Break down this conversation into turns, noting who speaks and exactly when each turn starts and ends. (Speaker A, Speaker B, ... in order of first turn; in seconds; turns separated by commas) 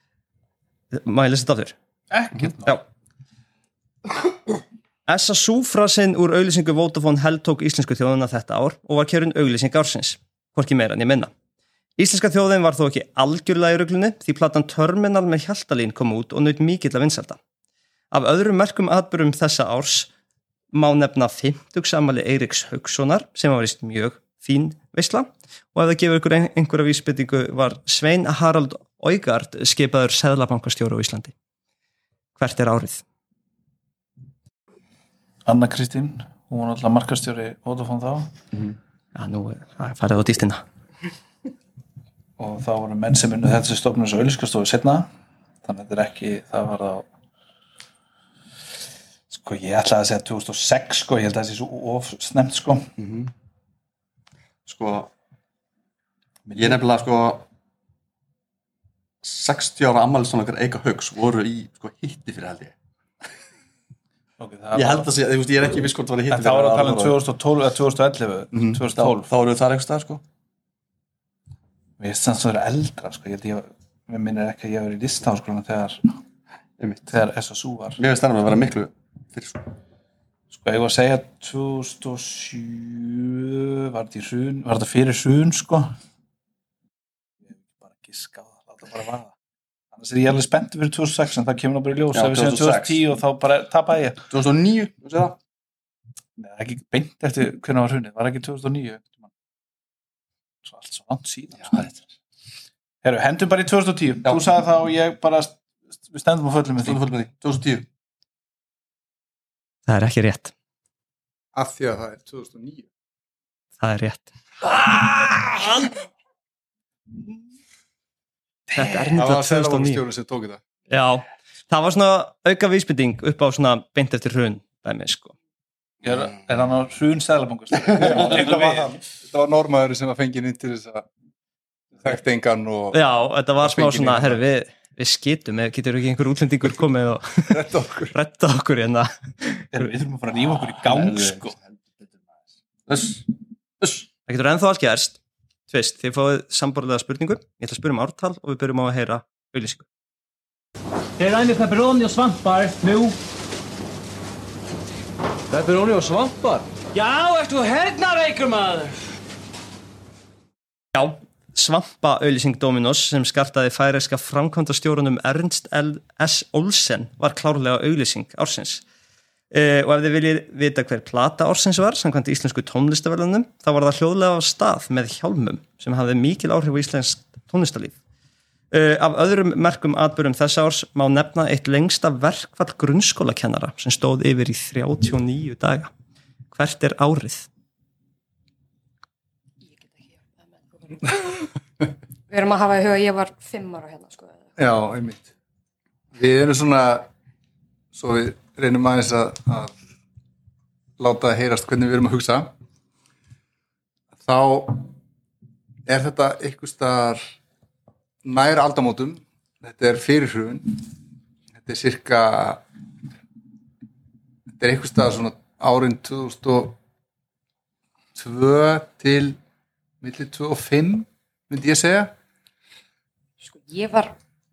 Speaker A: 0.9-1.7, Speaker B: 2.1-2.8, Speaker A: 5.1-11.3, Speaker A: 12.0-17.4, Speaker A: 18.1-20.1, Speaker A: 20.7-31.3, Speaker A: 32.4-33.0, Speaker B: 35.4-38.3, Speaker A: 39.1-40.6, Speaker B: 42.4-45.1, Speaker B: 45.6-47.1, Speaker B: 49.3-52.9, Speaker C: 53.0-53.3, Speaker C: 54.6-55.1, Speaker B: 56.5-56.8, Speaker C: 56.5-57.5, Speaker C: 59.2-62.7, Speaker B: 64.4-65.1, Speaker C: 64.7-67.2, Speaker B: 66.3-69.3, Speaker C: 68.5-70.2, Speaker B: 72.0-76.2, Speaker C: 76.8-77.2, Speaker B: 77.1-78.0, Speaker C: 78.0-79.7, Speaker B: 80.5-86.0, Speaker B: 87.5-89.3, Speaker B: 89.9-94.2, Speaker C: 92.1-93.0, Speaker C: 94.3-95.4, Speaker B: 96.4-99.3, Speaker B: 100.6-101.9, Speaker C: 101.6-102.0, Speaker B: 103.0-107.0, Speaker C: 106.8-107.8, Speaker A: 109.9-110.5, Speaker D: 111.5-112.9, Speaker A: 113.8-114.3, Speaker A: 118.7-120.0, Speaker B: 118.8-119.0, Speaker D: 119.1-120.6, Speaker A: 120.9-125.3, Speaker B: 126.0-129.0, Speaker C: 127.8-128.2, Speaker D: 128.0-131.1, Speaker D: 132.0-133.0, Speaker A: 132.9-139.8, Speaker D: 133.6-134.4, Speaker D: 137.5-138.1, Speaker B: 139.7-141.6, Speaker C: 140.5-142.1, Speaker C: 142.9-144.1, Speaker A: 144.3-145.2, Speaker A: 145.7-149.8, Speaker E: 151.2-153.2, Speaker E: 155.5-159.0, Speaker A: 160.9-168.8, Speaker A: 169.5-177.9, Speaker A: 178.7-185.9, Speaker A: 186.5-187.5, Speaker F: 189.7-191.5, Speaker F: 192.3-194.5, Speaker D: 194.6-195.3, Speaker D: 196.1-197.1, Speaker D: 197.9-199.7, Speaker D: 201.0-202.5, Speaker D: 204.2-204.9, Speaker D: 205.8-207.3, Speaker D: 208.2-210.8, Speaker D: 211.6-212.6, Speaker D: 214.6-216.8, Speaker D: 218.1-219.4, Speaker D: 220.0-222.1, Speaker F: 223.4-224.1